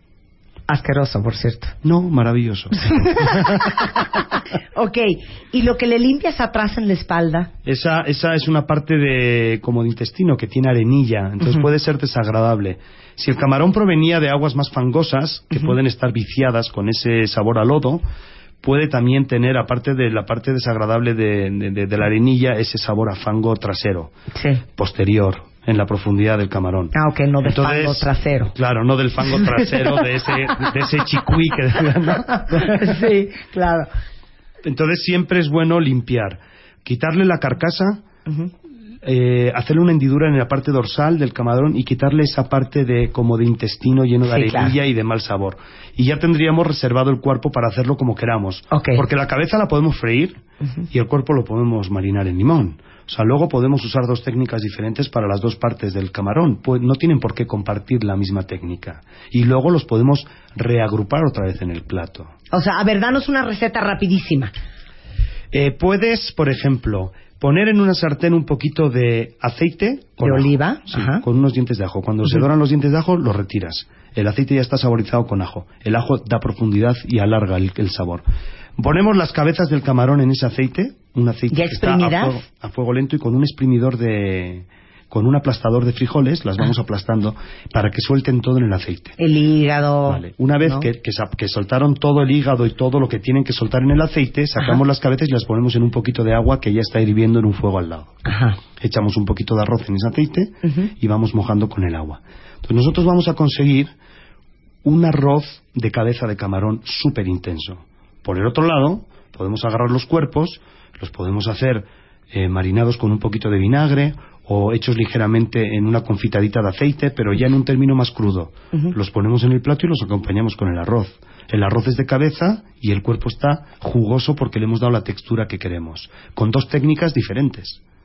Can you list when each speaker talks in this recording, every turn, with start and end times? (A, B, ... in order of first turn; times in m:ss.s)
0:00.7-0:01.7 A
0:01.8-0:04.0 B
0:02.9-0:07.5 A
0:07.6-0:18.0 B
0:18.6-0:24.1 B
0:24.3-0:24.6 A
0:24.7-0:33.0 B
0:26.9-0:28.5 A
0:32.5-0:33.9 A
0:34.6-0:38.0 B
0:39.0-0:50.4 B
0:44.3-0:44.8 A
0:48.7-0:49.0 A
0:50.9-1:02.3 B
1:02.5-1:04.5 A
1:05.5-1:18.2 B
1:10.2-1:11.2 A
1:18.8-1:29.2 B
1:21.5-1:22.4 A
1:29.2-1:30.9 A
1:30.1-1:38.2 B
1:38.2-1:38.6 A
1:38.8-1:43.9 B
1:44.8-2:07.8 B